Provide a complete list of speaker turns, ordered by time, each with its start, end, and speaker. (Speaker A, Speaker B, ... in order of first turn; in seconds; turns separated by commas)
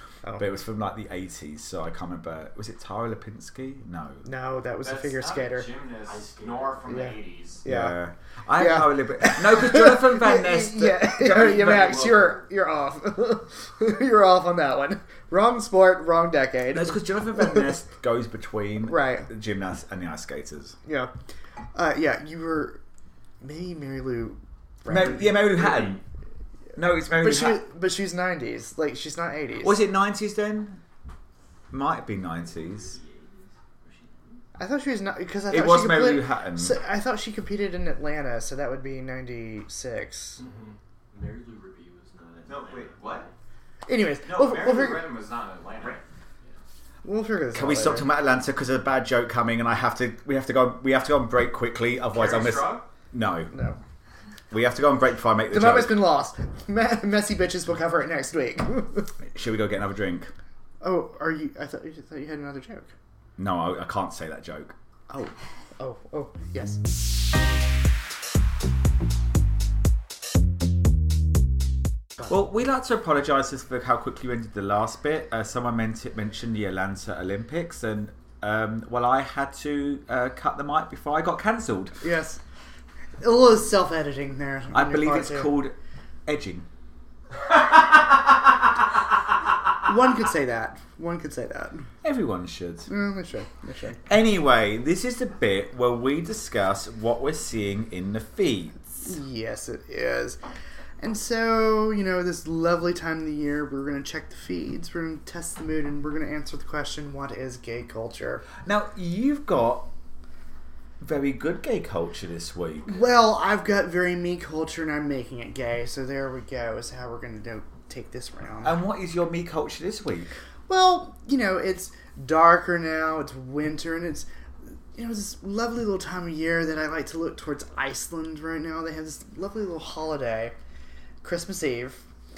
Speaker A: 0.4-4.2, Speaker B: 4.2-5.7, Speaker C: 4.8-7.6, Speaker D: 6.1-6.9, Speaker B: 6.8-8.0, Speaker A: 7.6-12.2, Speaker B: 8.6-17.7, Speaker A: 16.7-20.8, Speaker B: 18.9-19.3, Speaker B: 20.9-21.1, Speaker B: 21.7-22.8, Speaker B: 23.4-25.8, Speaker A: 24.9-26.0, Speaker A: 26.8-27.6, Speaker B: 27.2-29.8, Speaker A: 29.6-30.8, Speaker A: 31.7-33.0, Speaker D: 32.9-34.4, Speaker B: 34.6-40.4, Speaker A: 35.5-36.8, Speaker D: 40.4-43.3, Speaker C: 42.5-43.3, Speaker B: 43.9-45.1, Speaker C: 44.2-46.0, Speaker B: 47.0-48.1, Speaker A: 47.5-53.5, Speaker C: 52.1-52.9, Speaker B: 53.5-53.8, Speaker A: 54.5-56.0, Speaker B: 55.5-59.1, Speaker A: 59.2-60.3, Speaker B: 60.8-62.9, Speaker A: 63.4-64.7, Speaker B: 65.1-66.8, Speaker A: 72.2-82.0, Speaker B: 82.0-82.4, Speaker B: 83.2-85.5, Speaker A: 84.7-85.7, Speaker A: 86.2-86.7, Speaker B: 89.8-91.9, Speaker A: 92.0-92.9, Speaker B: 92.9-94.0, Speaker A: 94.0-99.1, Speaker B: 99.0-100.4, Speaker B: 101.0-108.5, Speaker A: 108.6-109.9, Speaker A: 111.0-113.0, Speaker B: 112.8-118.8, Speaker A: 118.6-120.3, Speaker B: 120.7-124.3, Speaker B: 124.9-130.5, Speaker B: 131.2-132.0